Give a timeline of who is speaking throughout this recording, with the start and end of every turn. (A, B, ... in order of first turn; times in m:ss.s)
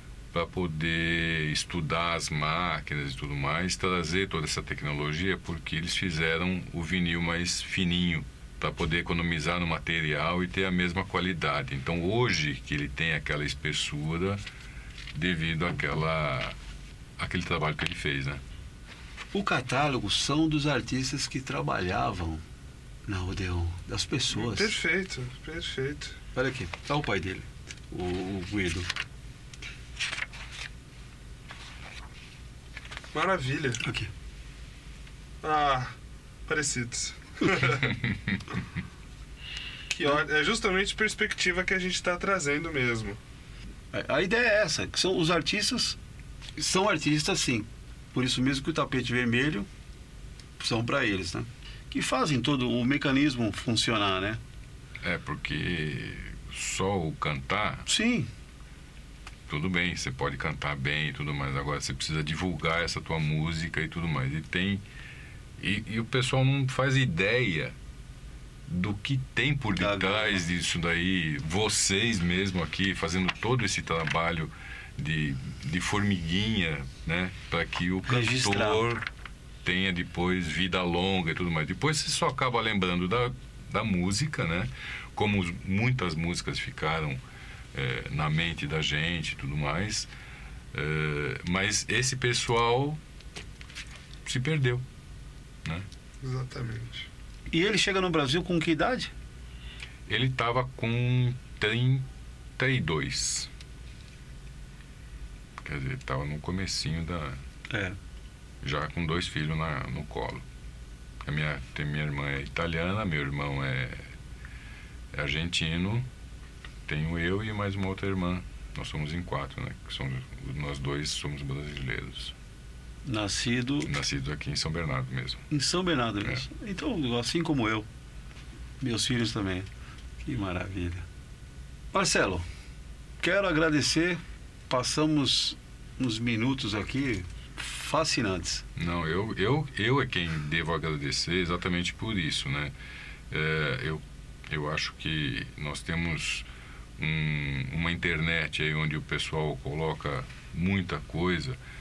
0:00.3-0:14.4 A
0:15.1-0:16.6 A
0:17.2-0:18.4 A
0:19.3-0:22.4 B
0:23.1-0:24.8 B
0:24.3-0:26.2 C
0:26.4-0:28.9 B
0:33.1-0:33.8 C
0:33.8-0:34.1 B
0:35.4-0:36.0 C
0:36.5-0:38.0 C
0:37.9-0:38.4 A
0:39.9-0:43.2 C
0:43.9-0:46.0 B
0:46.6-0:49.7 B
0:50.6-0:54.4 B
0:55.0-0:57.9 A
0:57.9-0:58.3 B
0:59.5-1:04.8 A
1:05.6-1:07.8 A
1:08.7-1:19.0 A
1:09.8-1:10.4 B
1:18.1-1:18.9 B
1:19.6-1:27.2 A
1:27.7-1:30.1 A
1:30.7-1:33.0 A
1:34.2-1:34.8 A
1:36.2-1:37.1 C
1:37.5-1:39.1 B
1:40.1-1:43.5 A
1:45.6-1:47.4 A
1:47.7-1:48.0 B
1:48.6-1:50.4 A
1:51.2-1:54.0 A
1:55.1-1:56.1 A
1:56.9-2:02.4 A
2:03.1-2:03.9 B
2:03.8-2:05.4 A
2:05.5-2:07.9 B
2:08.8-2:09.7 B
2:10.2-2:11.1 B
2:11.9-2:12.4 B
2:13.2-2:18.6 B
2:18.8-2:22.7 A
2:23.3-2:26.5 A
2:27.0-2:31.6 A